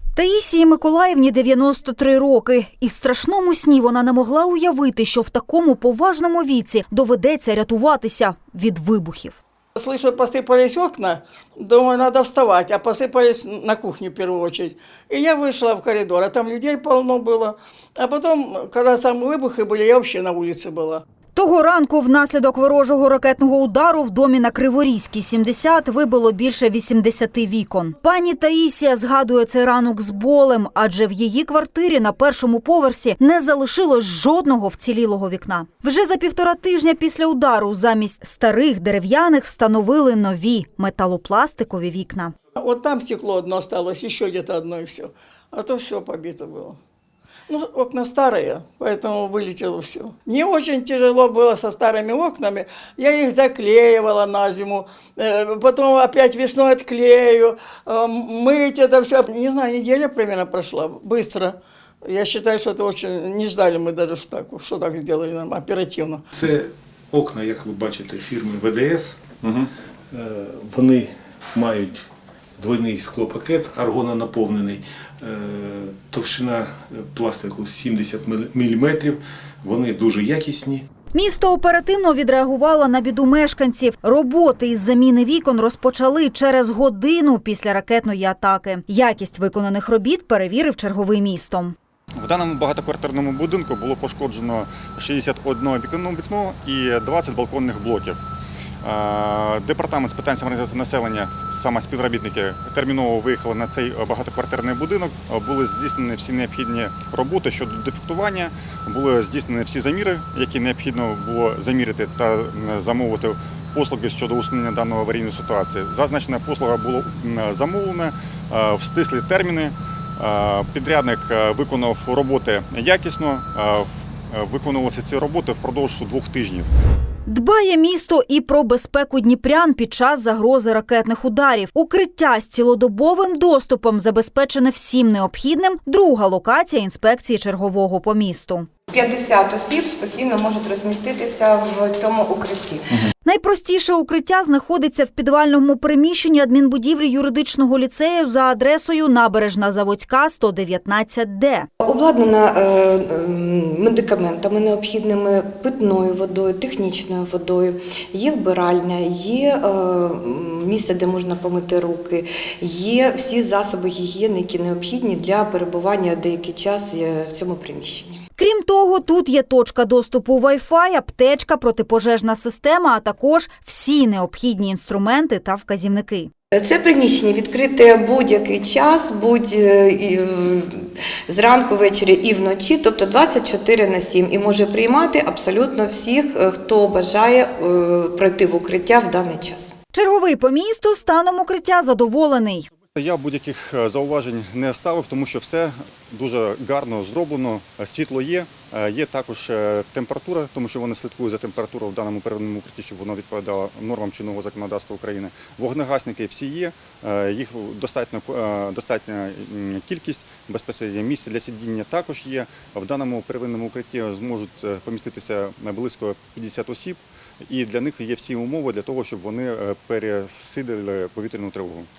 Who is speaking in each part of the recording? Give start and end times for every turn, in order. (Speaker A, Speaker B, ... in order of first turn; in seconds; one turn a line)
Speaker A: 0.1-9.4
Speaker B: 9.8-21.0
Speaker A: 21.3-42.3
Speaker B: 42.6-46.8
Speaker B: 47.5-66.2
Speaker C: 66.3-72.0
Speaker C: 72.6-80.8
Speaker A: 81.1-91.7
Speaker D: 92.2-98.2
Speaker D: 98.8-126.7
Speaker A: 127.3-138.7
Speaker E: 138.9-143.1
Speaker A: 143.2-151.7
Speaker E: 151.8-168.2
Speaker A: 168.4-176.3
Speaker E: 176.5-189.7
Speaker A: 189.9-192.7
Speaker D: 192.9-221.9